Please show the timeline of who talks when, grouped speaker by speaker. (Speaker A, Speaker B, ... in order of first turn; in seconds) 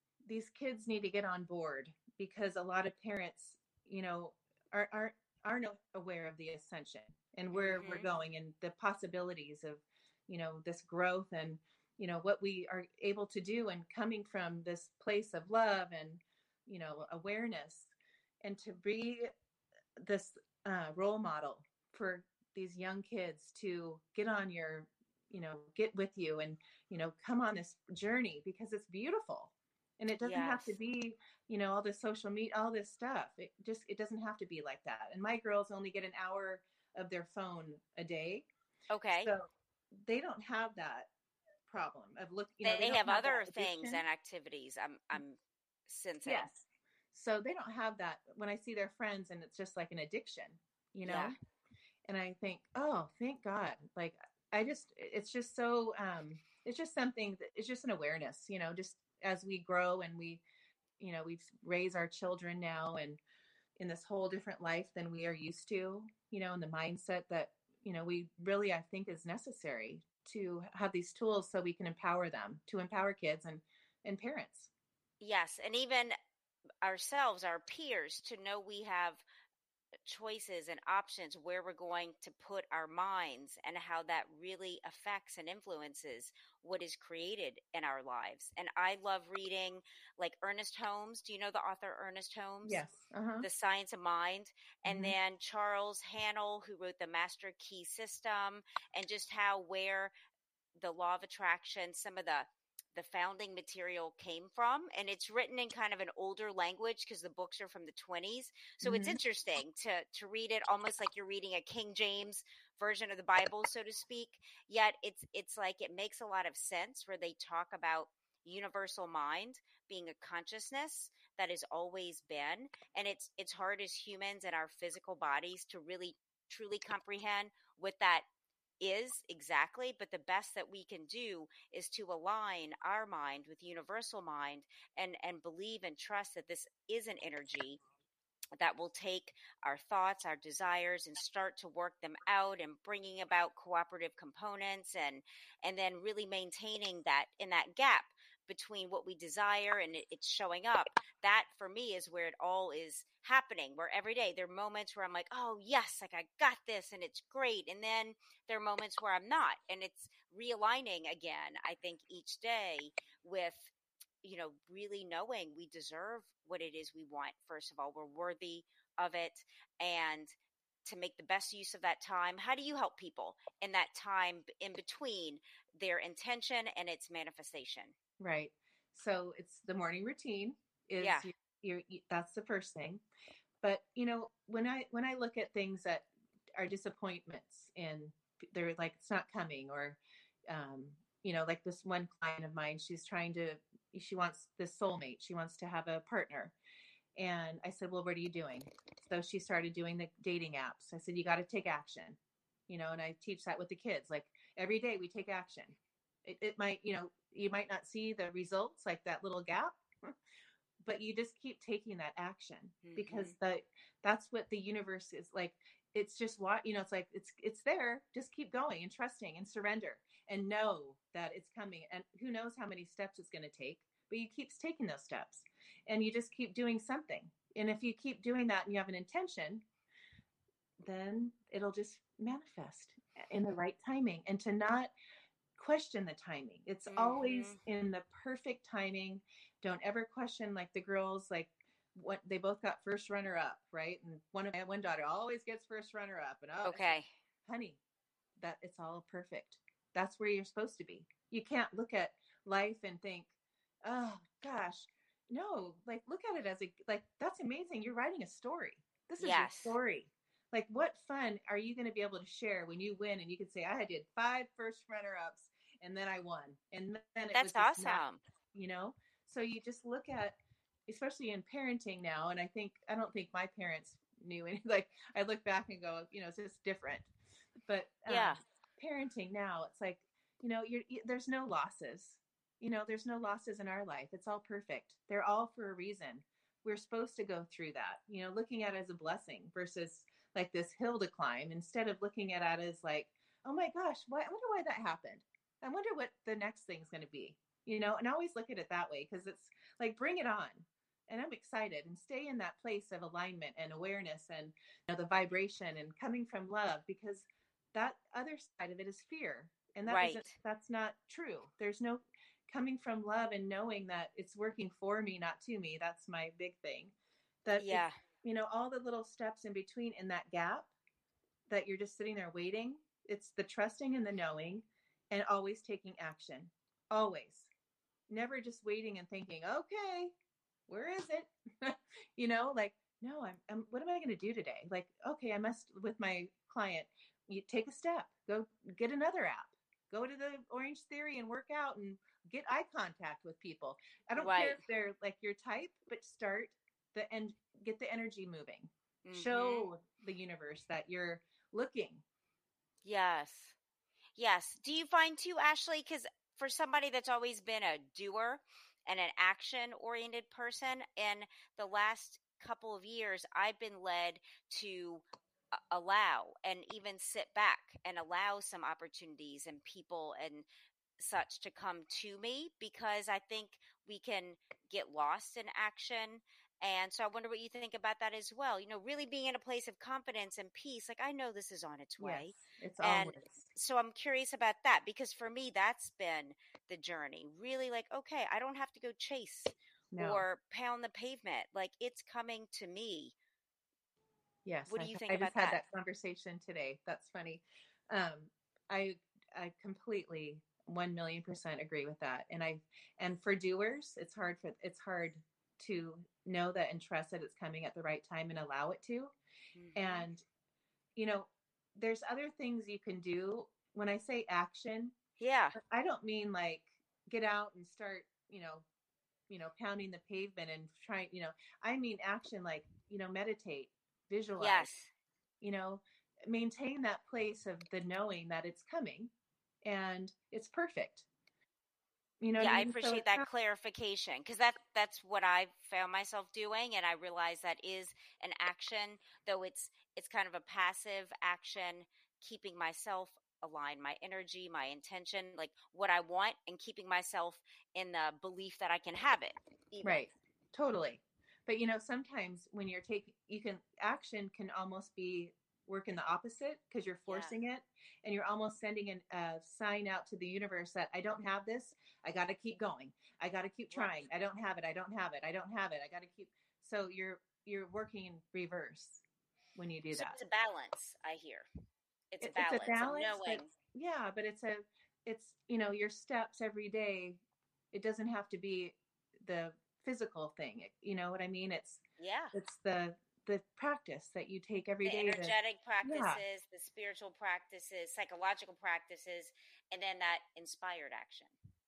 Speaker A: 0.2-17.9, 18.4-19.3, 20.0-38.5, 39.2-41.1, 41.7-44.0, 46.2-51.4, 52.0-60.4, 61.0-63.2, 63.8-74.7, 92.6-93.5, 94.8-95.1, 108.8-109.2, 178.2-183.0, 183.6-196.5, 197.2-202.2, 202.7-210.1, 210.8-229.6, 230.8-234.9, 235.6-247.8, 248.4-253.3, 253.8-268.0, 268.5-270.4, 270.9-277.1, 277.7-316.9, 317.4-320.7, 321.5-327.5, 328.1-330.1, 330.7-352.0, 382.0-383.4, 389.9-390.2, 394.4-409.1, 409.7-410.2, 410.9-414.9, 415.5-418.6, 419.3-424.7, 425.4-429.1, 429.6-431.1, 432.2-433.2, 449.8-469.0, 469.6-470.2, 472.2-477.2, 477.7-481.8, 482.3-486.2
Speaker B: 7.5-8.1, 30.2-30.7, 38.9-39.3, 42.6-46.5, 51.0-51.3, 75.2-76.2, 76.8-79.2, 80.0-92.8, 93.4-100.1, 100.8-128.2, 128.8-137.8, 138.6-163.7, 164.2-170.3, 170.8-177.9, 181.0-181.3, 212.8-213.3, 236.9-237.6, 246.6-247.1, 259.2-259.8, 267.3-268.2, 278.1-278.4, 309.9-310.3, 317.6-318.0, 344.2-344.6, 349.0-349.7, 352.8-353.6, 354.2-365.0, 365.7-370.4, 371.0-393.1, 394.7-395.6, 409.5-410.1, 415.2-415.6, 424.4-424.9, 432.4-450.1, 457.1-457.3, 463.7-464.0, 469.9-471.5, 472.1-473.5, 482.0-482.3, 484.8-491.3